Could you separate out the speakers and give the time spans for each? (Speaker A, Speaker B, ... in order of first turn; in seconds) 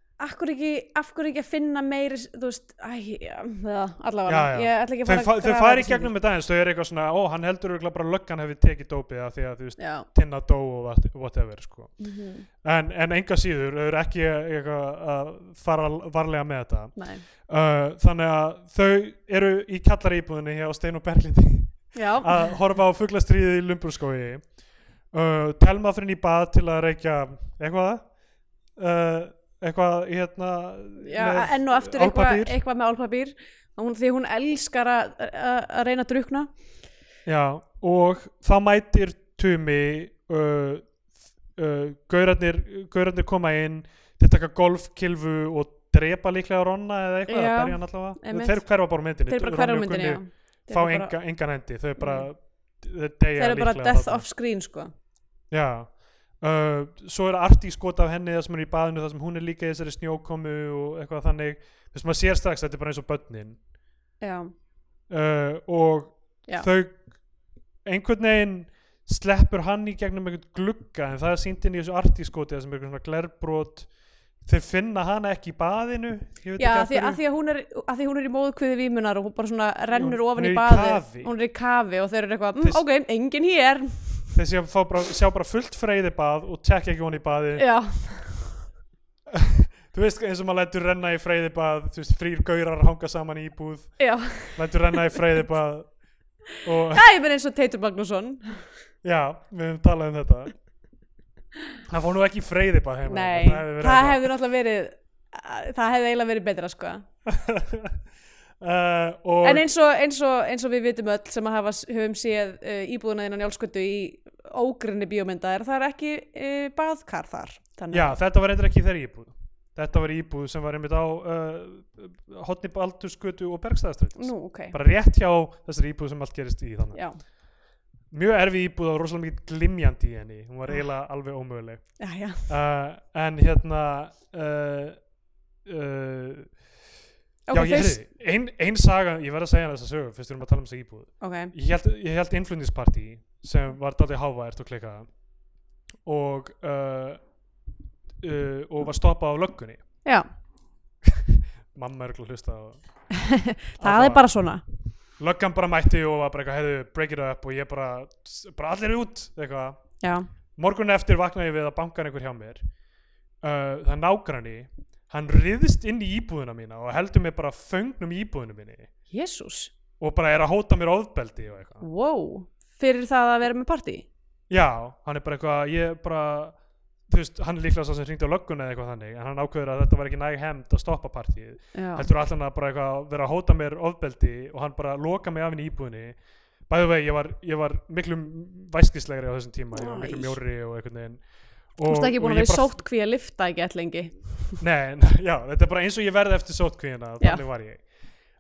Speaker A: 0.2-6.1, 9.8-10.1, 12.0-12.5, 17.0-17.2, 21.9-22.5, 31.0-36.5, 47.3-48.7, 49.3-51.2, 52.0-52.3, 53.4-54.9, 64.2-64.5, 76.6-84.3, 87.6-88.6, 94.0-94.8, 96.9-98.7, 103.1-107.0, 109.4-118.2, 124.2-124.8, 126.9-127.2, 132.0-132.5, 137.5-138.0, 141.2-141.5, 153.1-154.6, 160.0-160.3, 169.1-169.7, 171.8-174.1, 181.7-182.1, 189.7-190.4, 191.9-194.6
Speaker B: 4.3-12.0, 12.6-24.5, 25.1-28.1, 28.8-32.6, 37.2-41.0, 41.6-54.3, 55.5-63.6, 65.1-67.0, 67.8-73.9, 74.4-77.2, 79.9-81.3, 84.3-87.7, 89.3-96.0, 96.6-97.0, 99.0-100.5, 101.9-104.3, 107.3-108.0, 108.6-109.7, 117.9-127.0, 128.1-135.0, 135.7-136.6, 137.5-145.1, 146.1-147.2, 148.2-149.8, 151.7-152.8, 153.8-154.3, 155.2-159.8, 160.6-162.7, 163.4-168.9, 170.0-171.8, 174.5-186.2, 186.7-192.8, 194.6-197.8